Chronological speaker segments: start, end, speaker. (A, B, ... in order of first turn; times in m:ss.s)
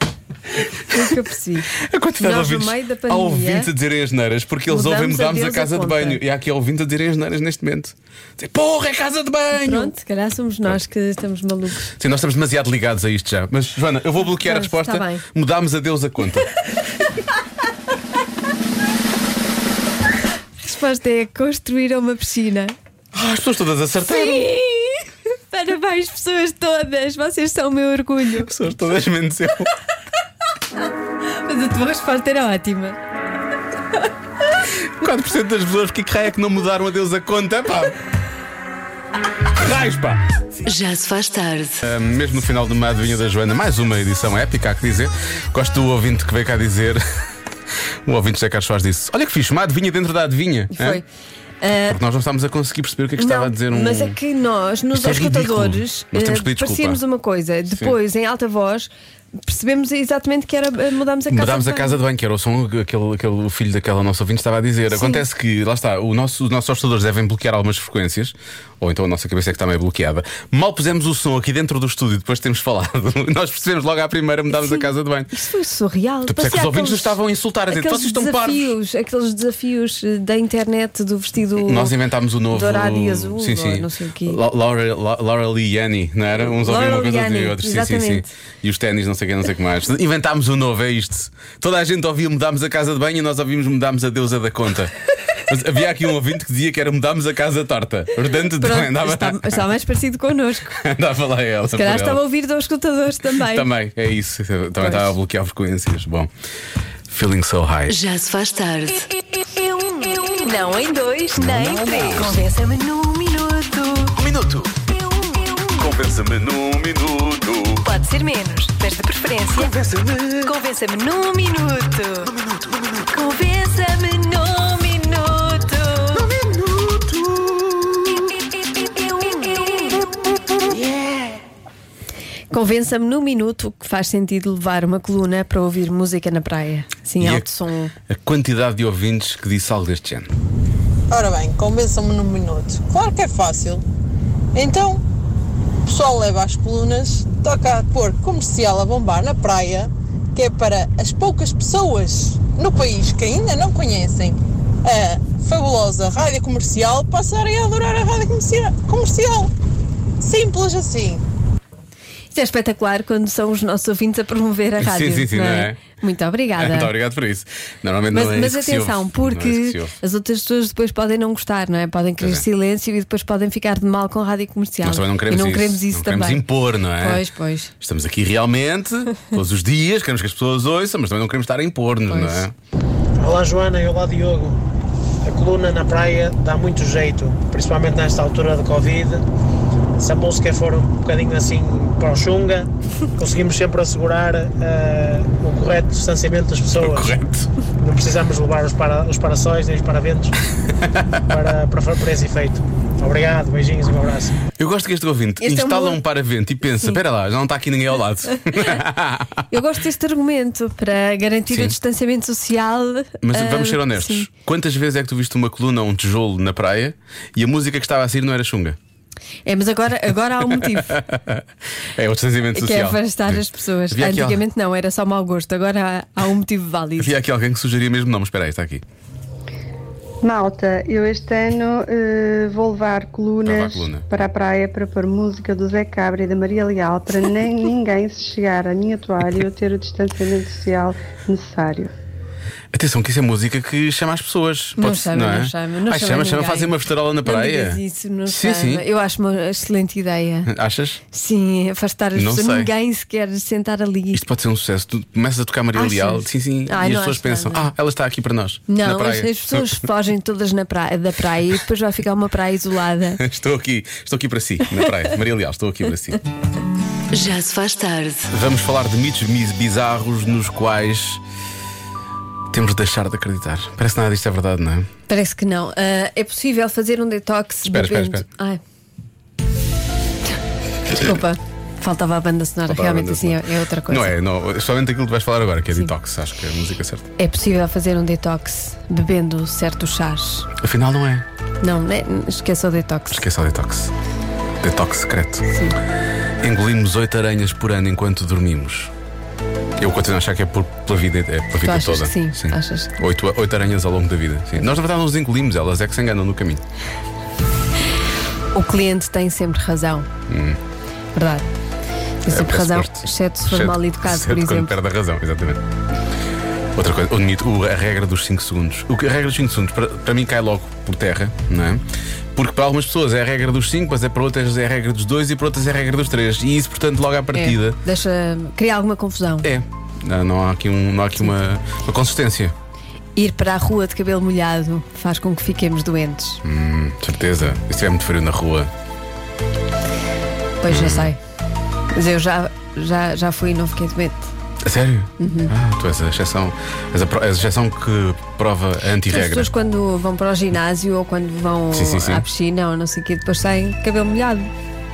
0:00.9-0:03.7 A
0:01.7-0:09.9 B
0:04.7-0:06.2 A
0:09.5-0:11.9 A
0:11.9-0:16.5 B
0:14.4-0:15.2 A
0:20.6-0:22.7 A
0:23.1-0:24.5 B
0:24.0-0:28.5 A
0:28.4-0:29.7 B
0:31.3-0:33.0 A
0:35.0-0:38.0 B
0:39.6-0:40.2 B
0:40.6-0:41.8 C
0:41.8-0:47.0 B
0:48.1-0:51.0 B
0:50.7-0:51.0 A
0:51.6-0:52.0 A
0:51.9-0:54.2 B
0:53.2-0:58.9 A
0:54.9-0:57.0 B
0:57.7-0:58.0 B
0:59.4-1:02.0 A
1:01.3-1:15.3 B
1:04.9-1:05.2 A
1:14.6-1:17.2 A
1:16.3-1:18.8 B
1:17.7-1:21.9 A
1:21.6-1:39.7 B
1:22.5-1:24.4 A
1:26.4-1:28.3 A
1:38.6-1:40.8 A
1:40.8-1:42.2 B
1:41.7-1:43.7 A
1:43.4-1:46.3 B
1:44.8-1:45.1 A
1:47.1-1:47.9 B
1:47.9-1:49.1 C
1:49.7-1:54.2 A
1:51.4-1:52.4 B
1:54.2-1:54.8 B
1:55.0-1:55.8 A
1:55.8-1:57.8 B
1:57.8-1:59.7 A
1:59.5-2:00.5 B
2:00.4-2:02.3 A
2:02.2-2:03.1 B
2:03.1-2:06.3 A
2:06.1-2:08.2 B
2:09.2-2:10.0 A
2:10.7-2:11.3 B
2:12.5-2:17.9 A
2:17.2-2:17.5 B
2:18.1-2:20.3 B
2:21.1-2:23.8 D
2:24.5-2:25.0 D
2:25.8-2:39.5 D
2:40.2-2:41.2 D
2:42.3-2:46.9 A
2:44.8-2:45.8 B
2:46.6-2:50.0 B
2:48.1-2:56.4 A
2:52.2-2:52.5 B
2:54.8-2:57.2 B
2:57.0-2:57.7 A
2:57.8-3:02.5 B
3:02.1-3:02.4 A
3:03.2-3:04.6 E
3:05.2-3:09.2 E
3:10.0-3:17.2 E
3:16.8-3:17.5 B
3:17.8-3:20.4 E
3:20.7-3:21.2 B
3:21.3-3:24.4 E
3:24.6-3:29.4 B
3:25.4-3:26.0 A
3:28.5-3:28.8 A
3:29.5-3:34.3 A
3:31.5-3:31.8 B
3:33.2-3:38.8 B
3:39.5-3:41.0 A
3:40.5-3:44.4 B
3:42.5-3:47.1 A
3:47.0-3:48.8 B
3:50.2-4:01.9 F
3:53.4-3:54.1 B
4:02.7-4:08.8 B
4:04.8-4:10.5 A
4:10.5-4:11.0 B
4:11.1-4:14.2 A
4:12.2-4:12.7 B
4:14.1-4:19.8 B
4:15.8-4:17.7 A
4:18.7-4:23.2 A
4:23.2-4:26.2 B
4:27.1-4:28.3 C
4:28.3-4:31.2 B
4:32.5-4:34.9 B
4:35.1-4:38.6 A
4:37.6-4:38.3 B
4:40.9-4:44.2 A
4:42.7-4:47.1 B
4:47.2-4:50.5 A
4:50.6-4:51.3 B
4:51.6-4:53.2 A
4:53.1-4:53.9 B
4:54.6-4:55.5 B
4:55.5-4:55.8 A
4:56.4-4:58.9 B
4:59.8-5:06.6 B
5:01.6-5:02.9 A
5:08.5-5:10.1 A
5:10.3-5:10.6 B
5:11.2-5:11.5 A
5:12.2-5:14.8 A
5:12.3-5:15.6 B
5:16.8-5:27.8 B
5:27.3-5:29.5 A
5:29.4-5:32.6 B
5:33.2-5:36.4 A
5:36.4-5:38.7 B
5:40.6-5:41.2 A
5:40.7-5:41.1 B
5:41.9-5:44.3 A
5:44.6-5:49.5 B
5:45.2-5:45.5 A
5:49.1-5:54.5 A
5:51.7-5:52.2 B